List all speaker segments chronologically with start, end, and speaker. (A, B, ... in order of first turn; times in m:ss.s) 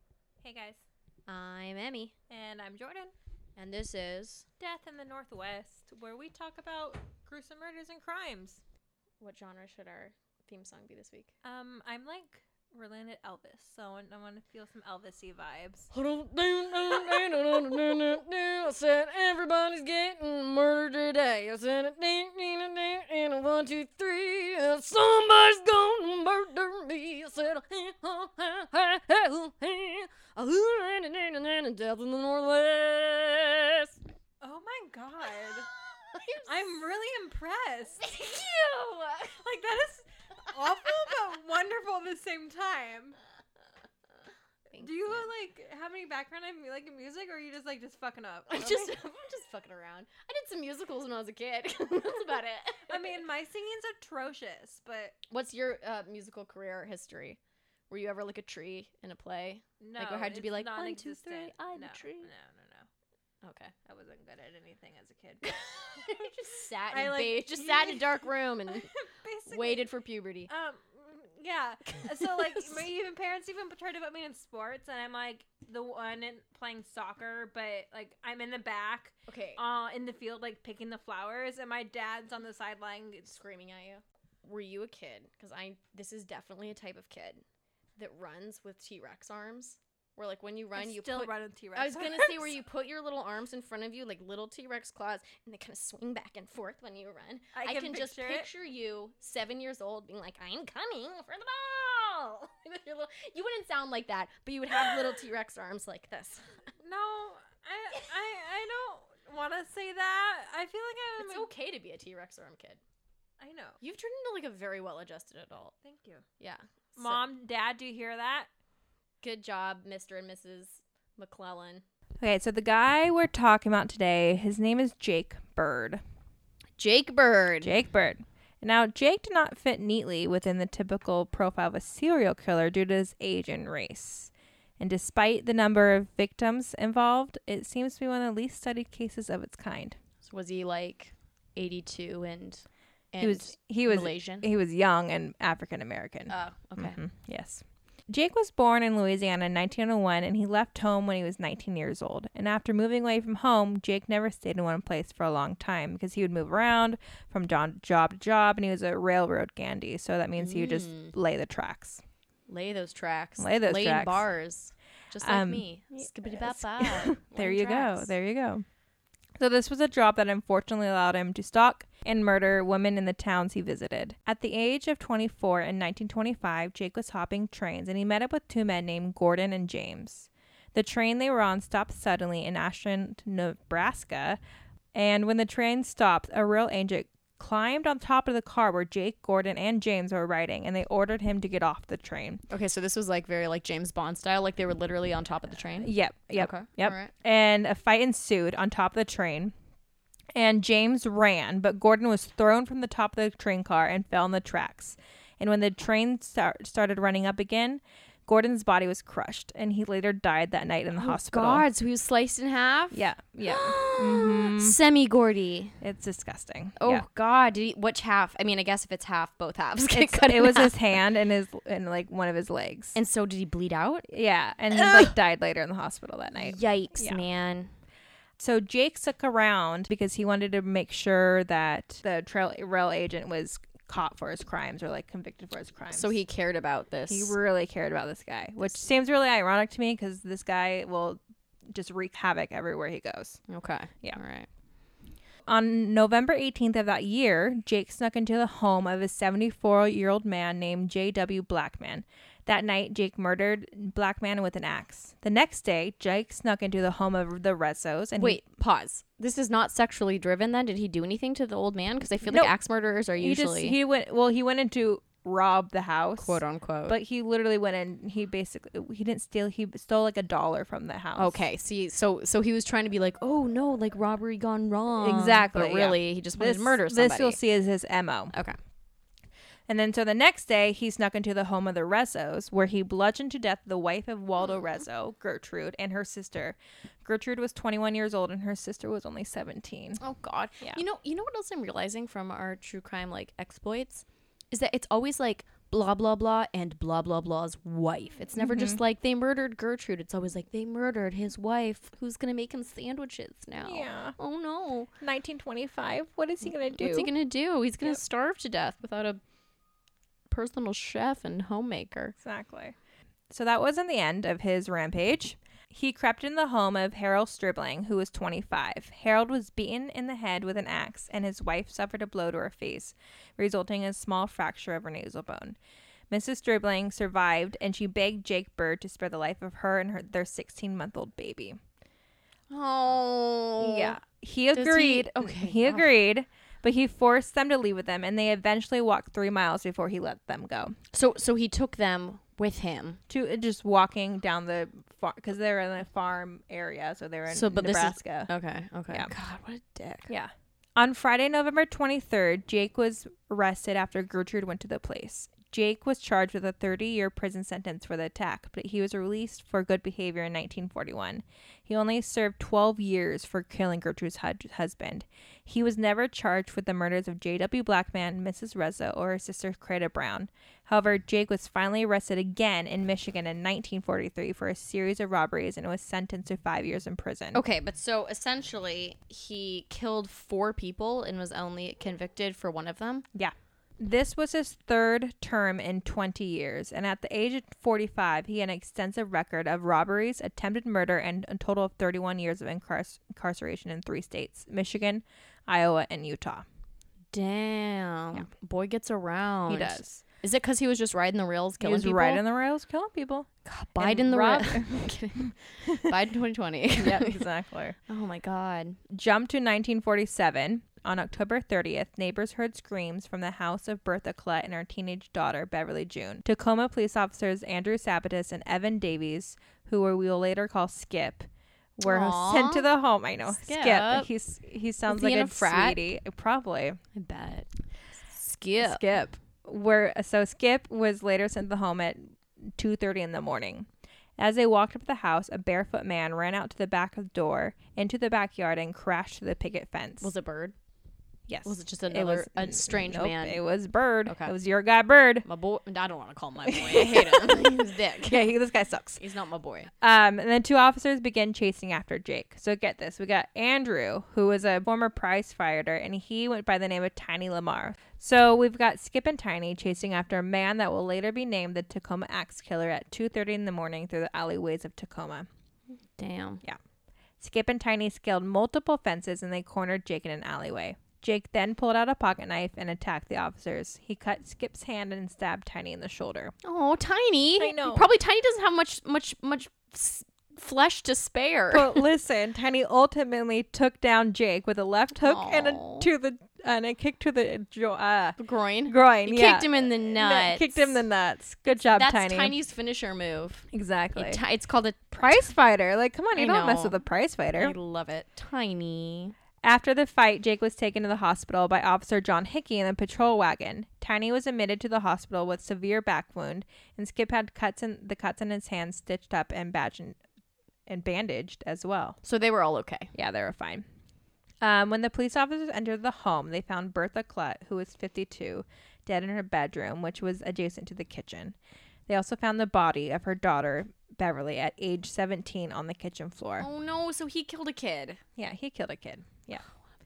0:00.4-0:00.8 A
0:01.3-0:02.1 B
0:02.3-0:03.1 A
0:03.6-0:04.5 B
0:04.6-0:08.6 A
0:09.2-0:11.3 B
0:11.4-0:15.9 A
0:15.9-0:33.9 B
0:16.9-0:18.0 A
0:34.4-0:35.7 A
0:36.1-0:36.8 B
0:36.4-0:38.1 A
0:38.0-0:39.4 B
0:39.3-0:43.2 A
0:44.7-0:45.3 B
0:44.8-0:49.0 A
0:48.5-0:53.2 B
0:52.9-0:55.2 A
0:55.3-0:57.4 B
0:57.9-1:02.3 B
0:59.8-1:02.9 A
1:03.4-1:03.7 B
1:03.8-1:06.3 A
1:05.4-1:08.9 B
1:06.9-1:09.9 A
1:09.5-1:10.5 B
1:10.5-1:23.3 A
1:11.9-1:12.8 B
1:19.3-1:19.6 B
1:23.2-1:27.4 B
1:28.0-1:46.6 B
1:30.7-1:32.6 A
1:37.5-1:38.5 A
1:44.8-1:45.1 A
1:46.8-1:51.5 A
1:51.2-1:52.8 B
1:53.4-1:53.8 A
1:53.8-1:55.7 B
1:55.8-1:56.2 A
1:56.4-1:57.2 B
1:57.0-1:58.5 A
1:59.2-2:01.8 B
2:02.2-2:06.0 A
2:06.8-2:07.8 B
2:07.6-2:20.0 A
2:20.2-2:24.5 B
2:23.2-2:42.0 A
2:26.3-2:27.0 B
2:40.4-2:41.1 B
2:42.5-2:48.1 B
2:43.4-2:44.2 A
2:45.2-2:48.6 A
2:49.4-3:04.4 A
3:04.9-3:12.4 A
3:12.5-3:17.1 B
3:15.8-3:19.5 A
3:20.3-3:31.6 A
3:30.9-3:35.8 B
3:32.9-3:34.8 A
3:35.8-3:37.0 A
3:36.8-3:40.8 B
3:39.9-3:43.0 A
3:42.9-3:44.1 B
3:44.1-3:47.2 A
3:44.7-3:45.1 B
3:46.4-3:47.7 B
3:48.4-3:56.1 A
3:55.9-3:57.3 B
3:57.1-4:01.2 A
4:01.7-4:03.4 A
4:03.5-4:04.5 B
4:05.5-4:18.4 A
4:18.2-4:23.8 B
4:22.3-4:22.5 A
4:23.2-4:31.4 A
4:26.2-4:27.0 B
4:31.2-4:37.4 B
4:35.0-4:38.3 A
4:39.7-4:50.0 A
4:50.0-5:04.9 B
4:58.4-4:58.8 A
5:03.6-5:04.2 A
5:05.0-5:07.1 A
5:06.7-5:09.2 B
5:10.3-5:12.2 B
5:12.2-5:12.7 A
5:13.3-5:25.6 A
5:26.1-5:31.6 A
5:32.5-5:34.0 B
5:33.6-5:40.7 A
5:34.5-5:35.9 B
5:40.9-5:43.0 B
5:43.1-5:48.3 A
5:47.3-5:50.1 B
5:50.1-6:17.4 A
6:17.3-6:23.0 B
6:23.1-6:36.4 A
6:37.1-6:42.2 B
6:39.5-6:40.0 A
6:41.6-6:45.9 A
6:43.4-6:47.2 B
6:46.8-6:47.8 A
6:47.9-6:48.8 B
6:48.9-7:06.8 A
7:01.8-7:02.7 B
7:03.3-7:04.1 B
7:04.9-7:05.8 B
7:06.9-7:07.5 B
7:08.1-7:08.8 B
7:08.6-7:20.1 A
7:20.0-7:20.5 B
7:21.3-7:25.2 A
7:21.4-7:23.4 B
7:24.0-7:24.3 B
7:25.2-7:28.3 B
7:26.4-7:29.0 A
7:29.0-7:29.7 B
7:29.8-7:45.3 A
7:46.0-7:46.4 B
7:47.2-7:56.3 A
7:56.4-8:01.9 B
7:57.4-7:57.9 A
8:01.5-8:12.3 A
8:05.0-8:05.9 B
8:08.2-8:10.8 B
8:11.4-8:15.2 B
8:13.5-8:14.2 A
8:15.0-8:17.5 A
8:16.1-8:16.8 B
8:17.4-8:19.1 B
8:19.4-8:30.0 A
8:30.7-8:32.0 A
8:32.0-8:32.9 B
8:32.9-8:33.6 A
8:34.4-8:41.4 A
8:41.9-8:46.4 A
8:46.4-8:48.0 B
8:48.2-8:49.4 A